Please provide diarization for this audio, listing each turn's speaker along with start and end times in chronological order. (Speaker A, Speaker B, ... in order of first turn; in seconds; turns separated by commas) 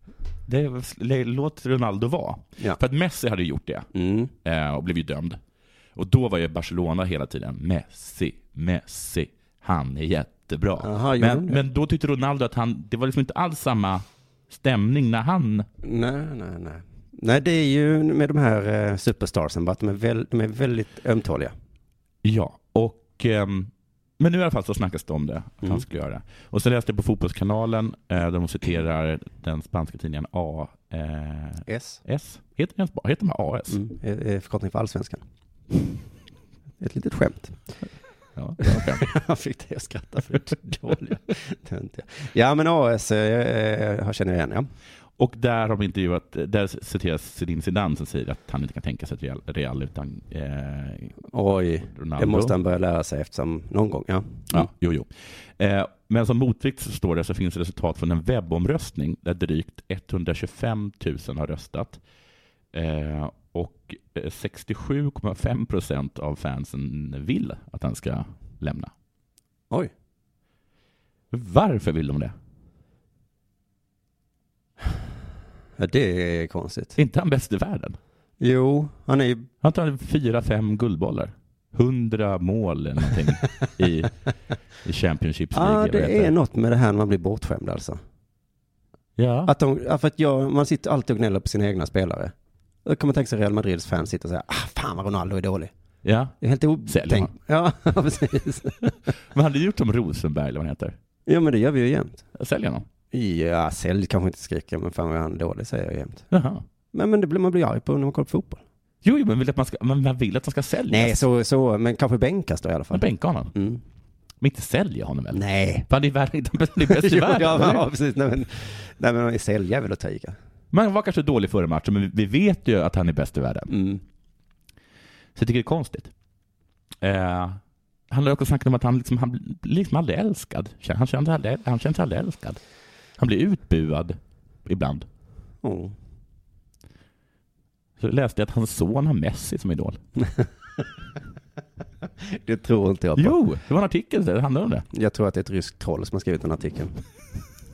Speaker A: 0.5-3.9, Speaker B: 3.9-4.3, Speaker A: 4.4-5.4, Speaker A: 6.0-15.7, Speaker B: 10.8-11.6, Speaker B: 15.8-21.5, Speaker A: 22.2-33.8, Speaker B: 31.7-32.0, Speaker B: 33.7-35.2, Speaker B: 36.8-37.6, Speaker A: 38.4-39.0, Speaker B: 38.6-44.7, Speaker A: 45.2-51.1, Speaker B: 51.3-54.6, Speaker A: 51.8-52.5, Speaker A: 54.5-62.0, Speaker A: 62.7-68.9, Speaker A: 71.3-72.3, Speaker B: 75.8-77.0, Speaker A: 77.0-78.0, Speaker B: 78.4-79.5, Speaker A: 79.6-84.1, Speaker A: 84.8-86.3, Speaker B: 85.5-88.0, Speaker A: 89.2-89.5, Speaker B: 89.5-92.3, Speaker B: 92.8-95.7, Speaker A: 96.0-96.3, Speaker B: 96.4-98.9, Speaker A: 96.8-97.3, Speaker A: 99.3-101.0, Speaker B: 101.3-102.2, Speaker A: 102.3-102.8, Speaker B: 103.1-106.3, Speaker A: 106.3-106.6, Speaker B: 106.9-108.6, Speaker A: 109.0-111.2, Speaker B: 110.9-113.8, Speaker A: 112.9-113.5, Speaker A: 114.4-117.8, Speaker B: 115.3-115.9, Speaker B: 116.8-120.4, Speaker A: 120.7-123.7, Speaker B: 123.7-124.0, Speaker A: 125.3-126.1, Speaker A: 127.0-132.6, Speaker A: 133.2-135.1, Speaker B: 135.6-135.9, Speaker A: 138.0-140.0, Speaker B: 142.3-143.4, Speaker A: 143.2-144.8, Speaker B: 144.9-146.9